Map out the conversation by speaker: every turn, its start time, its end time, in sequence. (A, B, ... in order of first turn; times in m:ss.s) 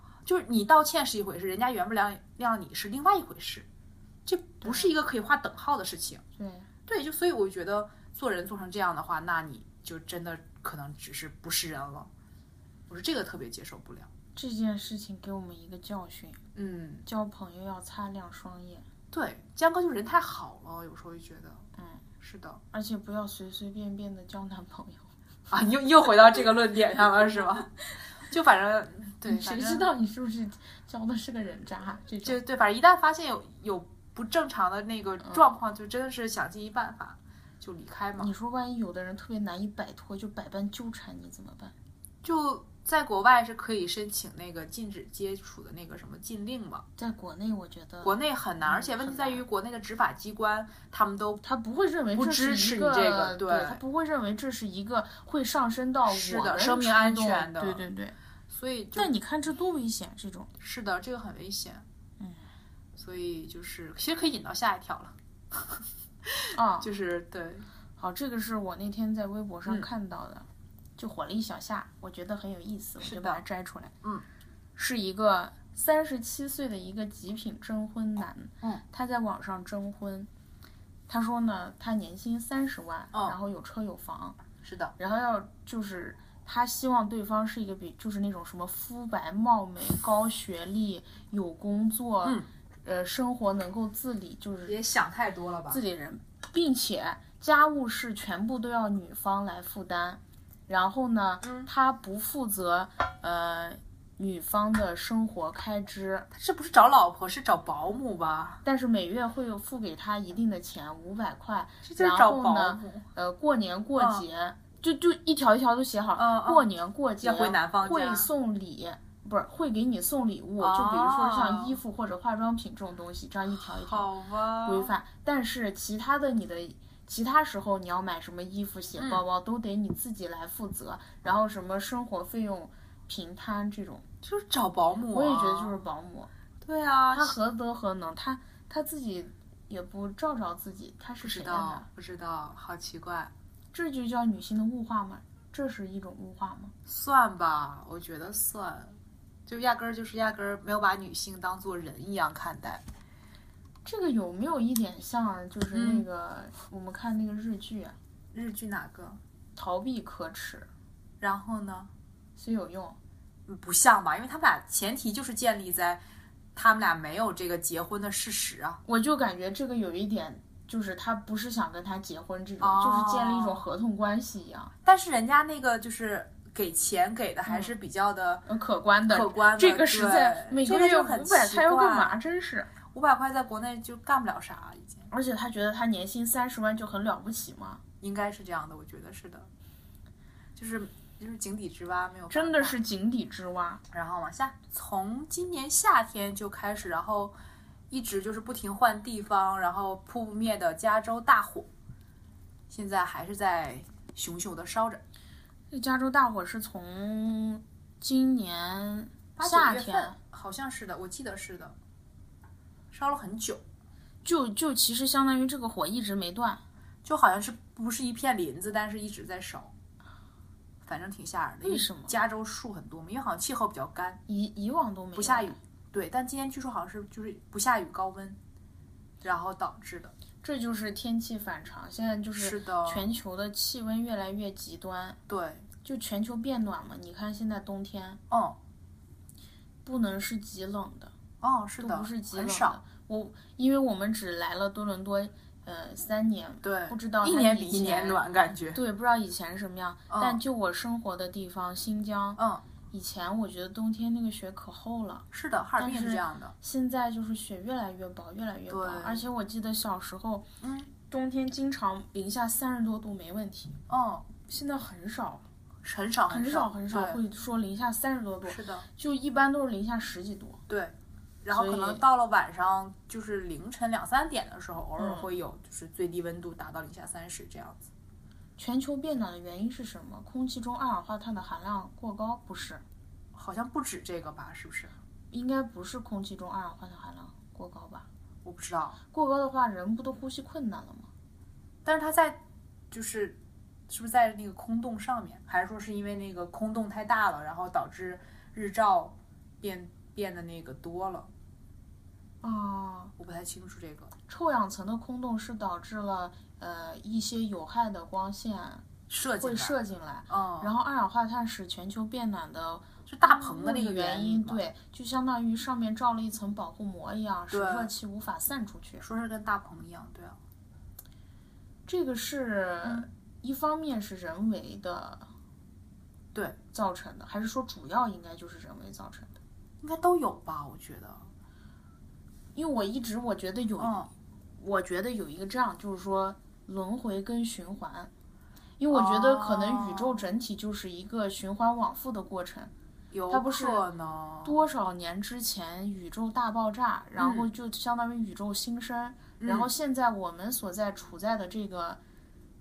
0:00.2-0:03.6 A
0:04.2-0:06.2 A
0:04.6-0:04.9 B
0:06.4-0:06.7 B
0:06.9-0:12.1 A
0:12.9-0:14.1 A
0:14.4-0:16.4 B
0:16.5-0:17.0 A
0:17.0-0:18.8 B
0:19.1-0:21.6 A
0:21.8-0:22.0 B
0:22.2-0:22.6 A
0:22.7-0:25.1 B
0:25.5-0:27.7 A
0:28.2-0:29.9 A
0:29.2-0:32.4 B
0:32.2-0:38.3 A
0:38.2-0:41.7 B
0:42.2-0:46.8 A
0:47.0-0:49.4 B
0:48.0-0:51.4 A
0:51.4-0:58.2 B
0:52.1-0:53.8 A
0:56.1-0:57.8 A
0:58.5-0:59.1 A
0:58.9-1:00.5 B
1:00.6-1:01.8 A
1:02.2-1:02.4 B
1:03.0-1:07.7 A
1:06.5-1:06.9 B
1:08.0-1:13.9 B
1:13.0-1:13.4 A
1:14.8-1:20.3 B
1:21.1-1:24.4 B
1:24.6-1:24.9 A
1:25.0-1:34.8 B
1:34.6-1:35.8 A
1:35.7-1:46.3 B
1:41.4-1:41.7 A
1:46.3-1:48.6 A
1:48.6-2:04.1 B
1:51.8-1:53.0 A
1:54.0-1:54.2 A
1:56.2-1:56.7 A
1:57.2-1:58.3 A
2:00.6-2:01.8 A
2:03.5-2:04.9 A
2:04.6-2:14.0 B
2:09.0-2:09.2 A
2:14.2-2:15.8 A
2:15.1-2:16.3 B
2:16.6-2:17.4 A
2:17.1-2:21.8 B
2:21.2-2:23.3 A
2:23.7-2:26.7 B
2:26.8-2:32.8 A
2:33.8-2:38.0 B
2:35.7-2:36.0 A
2:38.3-2:39.2 A
2:39.6-2:40.7 B
2:41.2-2:41.9 A
2:42.4-2:43.0 B
2:43.5-2:46.0 A
2:46.5-2:48.8 A
2:48.8-2:54.7 B
2:52.6-2:53.6 A
2:54.8-2:58.4 A
2:57.5-2:57.7 B
2:58.4-3:02.7 B
2:59.1-3:02.2 A
3:02.8-3:05.1 A
3:05.1-3:07.8 B
3:08.0-3:09.5 A
3:10.6-3:12.8 A
3:12.3-3:13.8 B
3:13.9-3:17.3 A
3:17.9-3:21.7 A
3:22.7-3:25.0 A
3:25.7-3:30.2 B
3:29.4-3:31.8 A
3:32.9-3:33.6 A
3:34.2-3:36.6 B
3:37.0-3:39.7 A
3:40.8-3:44.2 A
3:41.6-3:42.2 B
3:44.3-3:45.6 B
3:45.1-3:48.4 A
3:49.2-3:50.1 A
3:50.4-3:55.2 B
3:52.3-3:53.1 A
3:55.3-3:55.6 A
3:55.8-3:58.2 B
3:58.3-3:58.6 A
3:59.8-4:01.1 B
4:01.4-4:02.8 A
4:01.8-4:15.2 B
4:06.6-4:08.8 A
4:10.1-4:10.4 A
4:12.4-4:12.6 A
4:15.3-4:16.5 A
4:15.8-4:20.5 B
4:18.7-4:19.3 A
4:20.6-4:20.9 A
4:21.1-4:23.8 B
4:23.9-4:24.3 A
4:24.4-4:25.4 B
4:25.8-4:27.2 A
4:26.3-4:30.6 B
4:28.4-4:28.9 A
4:30.7-4:37.8 A
4:31.5-4:32.0 B
4:35.0-4:35.3 B
4:38.6-4:42.8 B
4:43.3-4:44.9 A
4:45.3-4:48.1 B
4:48.4-4:49.0 A
4:49.1-4:51.1 B
4:51.8-4:52.4 A
4:52.9-4:53.4 A
4:53.9-5:01.3 A
5:02.4-5:03.1 B
5:03.2-5:04.1 A
5:04.3-5:08.8 B
5:09.1-5:09.8 A
5:09.4-5:19.0 B
5:10.3-5:10.7 A
5:13.0-5:14.6 A
5:17.5-5:17.9 A
5:19.0-5:20.4 A
5:21.9-5:25.3 B
5:26.7-5:29.4 B
5:29.8-5:31.3 A
5:32.5-5:38.1 B
5:33.8-5:34.1 A
5:38.8-5:42.7 B
5:38.9-5:40.3 A
5:43.1-5:44.6 A
5:43.3-5:43.8 B
5:44.4-5:52.0 B
5:47.2-5:47.5 A
5:49.4-5:49.7 A